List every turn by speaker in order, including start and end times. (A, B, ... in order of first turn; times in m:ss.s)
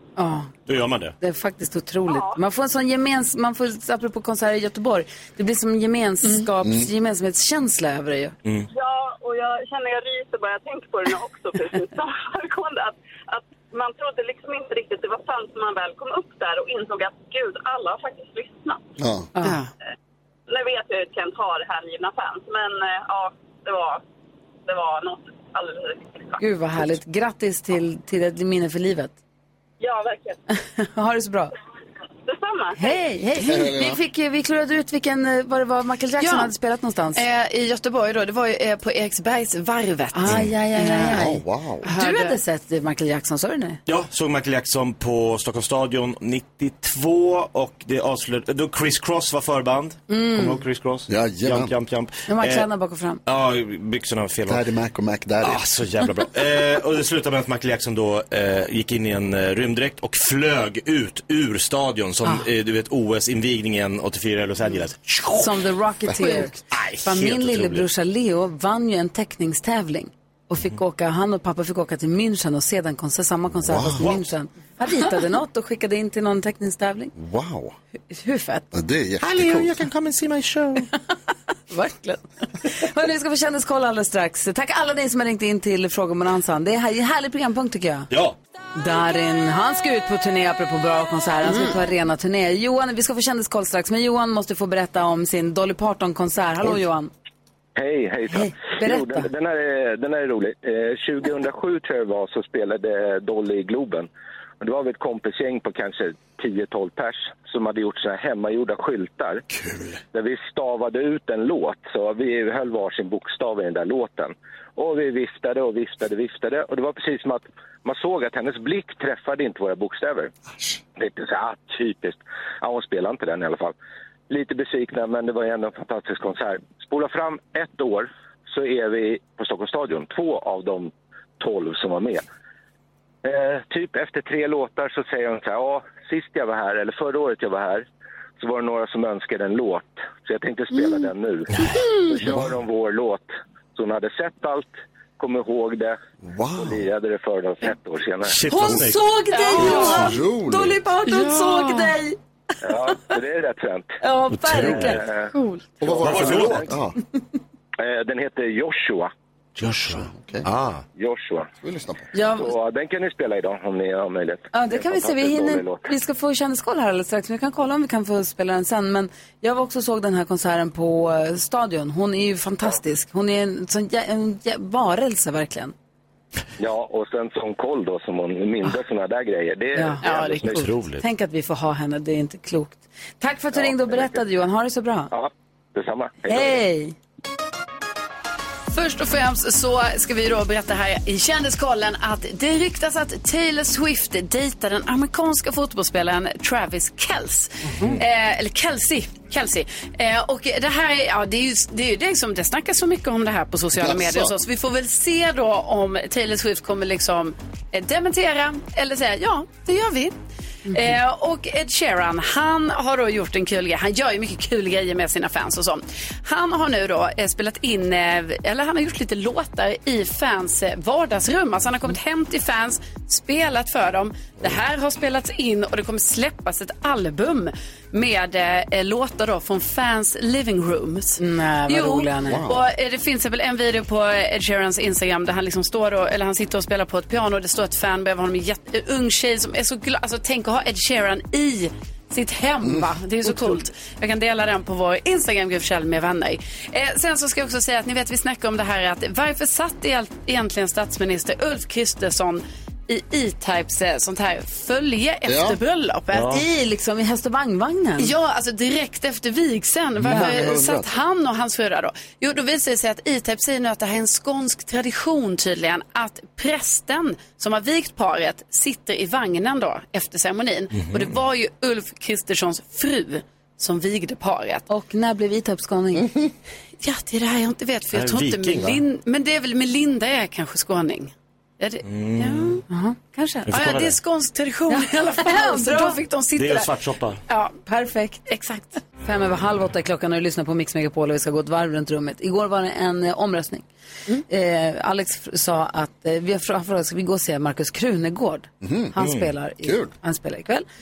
0:00.2-0:00.5 A
0:00.7-0:01.1 B
0:01.2-0:08.3 A
0:02.0-0:02.4 C
0:06.6-0:06.9 D
0:08.7-0:18.8 C
0:19.0-0:19.3 D
0:19.4-0:19.6 A
0:19.4-0:19.7 E
0:20.5-0:24.0 C
0:24.6-0:26.4 C
0:26.4-0:29.2 A
0:29.8-0:30.4 C
0:30.5-0:31.5 A
0:32.2-0:33.0 C
0:32.8-0:37.2 A
0:33.4-0:34.0 D
0:36.2-0:36.5 E
0:37.1-0:41.2 E
0:40.1-0:43.8 A
0:41.1-0:41.8 D
0:41.8-0:42.4 E
0:43.8-0:52.7 B
0:50.1-0:50.6 A
0:51.1-0:51.7 D
0:52.3-0:53.2 A
0:53.2-0:54.6 B
0:54.5-0:55.6 D
0:55.4-1:05.5 B
1:05.4-1:17.1 A
1:06.7-1:07.9 B
1:13.6-1:14.2 D
1:14.0-1:14.2 B
1:17.1-1:17.8 D
1:18.1-1:18.6 A
1:18.7-1:19.8 D
1:19.2-1:20.9 B
1:21.7-1:28.1 A
1:28.1-1:28.4 B
1:28.8-1:37.1 A
1:31.4-1:31.8 E
1:37.8-1:44.1 F
1:38.3-1:39.3 A
1:44.6-1:49.4 F
1:49.5-1:50.0 D
1:50.1-2:00.3 F
2:01.0-2:03.8 F
2:04.3-2:12.2 F
2:13.2-2:17.8 F
2:18.4-2:21.5 F
2:22.1-2:26.0 F
2:22.2-2:22.5 D
2:26.2-2:26.8 D
2:26.6-2:28.8 F
2:28.3-2:29.0 B
2:28.5-2:32.2 A
2:29.3-2:30.2 E
2:29.6-2:30.8 D
2:31.0-2:32.0 E
2:32.6-2:33.9 F
2:34.0-2:35.0 A
2:34.3-2:35.0 B
2:34.7-2:35.3 F
2:35.3-2:35.7 E
2:35.8-2:37.0 D
2:35.8-2:36.7 F
2:36.0-2:36.7 B
2:37.8-2:39.1 F
2:39.6-2:40.8 B
2:39.8-2:40.5 D
2:41.0-2:41.5 F
2:41.6-2:42.1 D
2:42.1-2:42.5 A
2:42.2-2:45.9 F
2:44.5-2:55.7 A
2:56.6-3:00.6 F
2:59.7-3:05.1 A
3:00.0-3:00.4 E
3:00.4-3:01.0 B
3:03.6-3:04.2 F
3:05.1-3:06.6 F
3:06.3-3:07.0 A
3:08.7-3:30.2 E
3:23.8-3:24.3 D
3:30.7-4:16.4 E
3:51.2-3:52.4 A
3:52.3-3:52.6 D
4:15.3-4:15.6 D
4:16.1-4:16.4 B
4:16.3-4:18.1 A
4:18.0-4:34.6 E
4:20.0-4:20.9 D
4:20.1-4:20.3 A
4:30.7-4:31.2 B
4:34.7-4:36.1 A
4:36.8-4:42.6 E
4:37.9-4:38.8 B
4:41.8-4:42.6 B
4:42.7-4:43.5 A
4:43.5-4:44.0 B
4:43.5-4:46.7 E
4:44.7-4:46.0 A
4:46.4-4:47.2 B
4:47.3-4:47.6 E
4:47.6-4:48.2 A
4:48.2-4:48.8 E
4:49.0-4:53.6 A
4:54.3-5:00.6 A
4:58.6-4:59.0 D
4:59.6-4:59.9 D